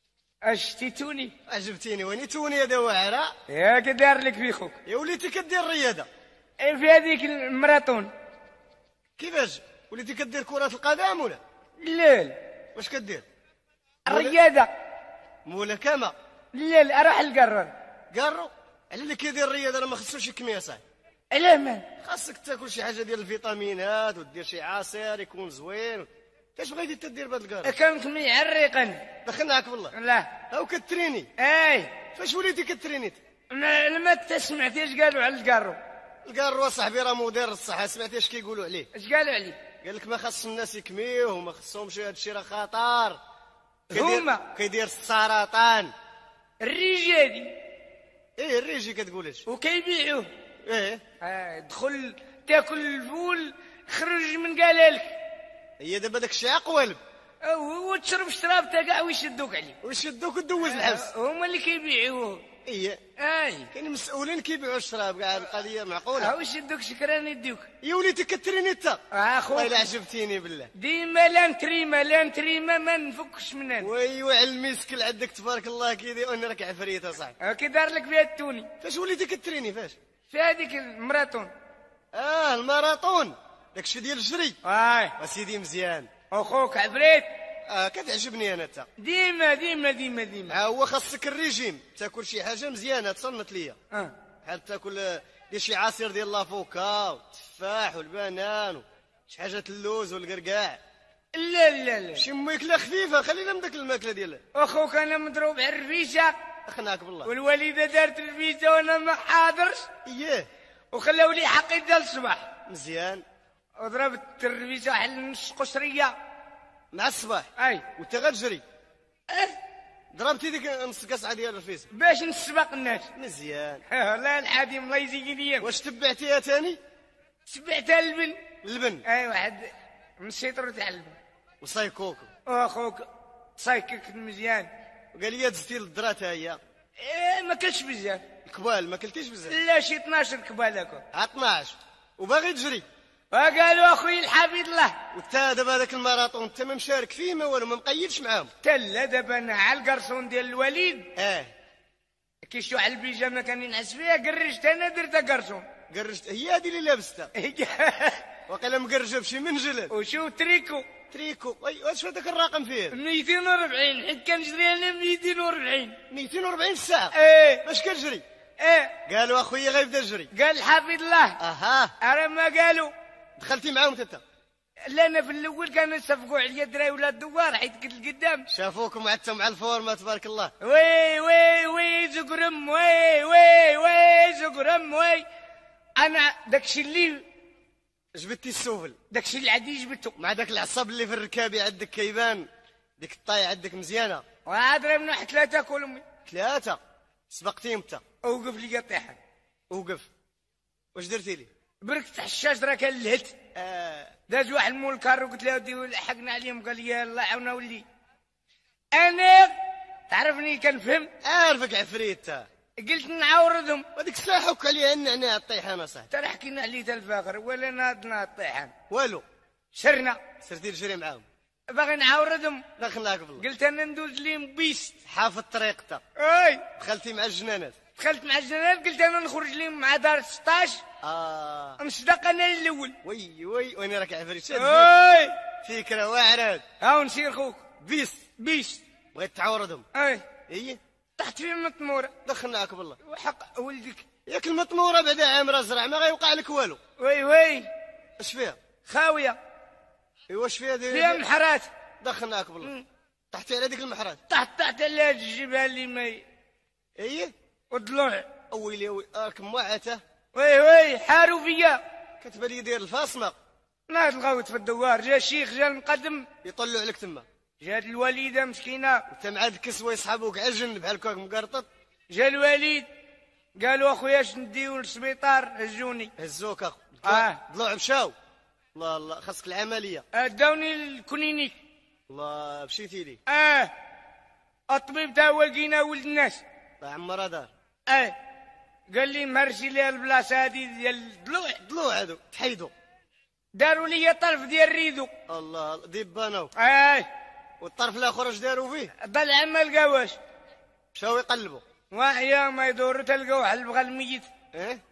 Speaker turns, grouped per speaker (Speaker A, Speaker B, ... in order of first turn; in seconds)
Speaker A: 0.4-1.3, 3.5-4.8, 6.6-8.1, 11.8-12.4, 14.1-14.7, 16.5-17.7, 21.3-21.9, 27.6-29.1, 29.9-30.4, 31.4-31.9, 33.5-35.8, 38.9-39.6, 43.9-44.5, 46.6-47.6, 49.5-50.3, 51.2-55.1, 57.4-59.8, 60.6-62.4, 63.2-63.7, 66.2-67.7, 69.1-69.8, 70.7-73.9, 77.4-78.7, 80.3-81.5, 84.6-85.1, 86.3-87.3, 89.0-90.6, 101.3-102.2, 104.5-106.3, 107.2-109.9, 110.9-112.5, 113.8-116.1, 117.6-117.8, 121.9-123.1, 123.9-125.7, 127.5-128.4, 129.0-131.2, 132.4-134.7, 137.0-138.2, 139.5-141.0, 143.3-145.0, 148.6-151.1, 152.4-155.7, 157.3-158.2, 159.9-160.9, 162.9-166.0, 167.1-167.7, 168.6-168.9, 170.3-171.4, 172.0-172.9, 174.8-178.5, 180.6-185.2, 186.0-187.2, 189.1-190.1, 194.4-196.0, 198.2-199.2, 201.8-203.4, 204.3-207.8, 208.9-209.5, 210.1-211.1, 212.8-213.8, 216.1-218.7, 219.7-220.2, 221.7-222.6, 223.4-225.0, 226.2-226.6, 228.0-230.8, 231.8-233.0, 234.5-235.3, 236.8-237.6, 238.4-238.8, 239.9-240.2, 241.2-242.1, 243.0-244.1, 247.0-247.7, 248.8-249.4, 250.9-251.7, 254.3-256.2, 257.7-258.3, 260.3-261.8, 263.9-266.3, 267.6-269.1, 272.1-272.9, 273.6-276.1, 277.0-277.4, 280.1-281.6, 283.3-283.7, 284.7-286.4, 287.9-288.1, 288.9-291.6, 293.5-295.1, 296.6-297.1, 299.0-300.2, 301.9-304.3
Speaker B: 1.5-3.3, 4.8-6.1, 9.2-11.4, 12.7-13.2, 14.1-14.4, 15.4-16.1, 18.1-20.8, 22.0-27.7, 29.2-29.9, 30.5-31.3, 32.1-33.2, 36.2-38.9, 39.8-43.2, 43.9-45.9, 48.4-49.4, 50.6-51.0, 55.8-57.0, 59.8-61.1, 62.6-63.0, 63.7-66.3, 67.8-69.0, 69.5-70.7, 73.8-77.3, 78.8-80.0, 82.1-84.6, 85.2-86.1, 87.7-88.9, 90.5-93.8, 94.4-100.8, 102.2-104.4, 106.7-107.3, 110.0-110.5, 112.7-113.2, 116.9-118.6, 120.1-121.9, 123.1-123.8, 125.6-126.8, 128.6-129.0, 131.6-132.3, 135.1-136.6, 138.4-139.5, 141.1-142.8, 145.1-148.5, 151.2-151.5, 155.9-157.3, 158.5-159.9, 161.1-163.0, 166.1-167.1, 167.6-168.2, 169.1-170.3, 171.4-171.9, 173.4-174.2, 178.5-180.5, 188.1-189.0, 190.2-192.5, 193.0-194.2, 196.2-196.8, 197.3-198.0, 199.7-200.1, 200.9-201.5, 203.5-204.1, 211.2-212.4, 213.9-216.1, 218.9-219.2, 220.4-221.2, 222.8-223.4, 225.1-226.0, 226.8-227.8, 231.0-231.8, 233.0-234.9, 235.6-236.6, 237.8-238.2, 239.1-239.8, 240.5-240.8, 242.2-243.0, 244.2-246.8, 248.2-248.6, 250.3-251.2, 252.0-252.7, 253.3-254.2, 257.0-257.3, 258.5-260.0, 262.2-263.3, 266.4-267.2, 269.1-271.7, 276.2-278.1, 278.7-280.0, 282.1-283.2, 286.8-287.5, 291.6-292.7, 295.3-296.5, 297.6-298.9, 300.9-301.6, 304.5-304.8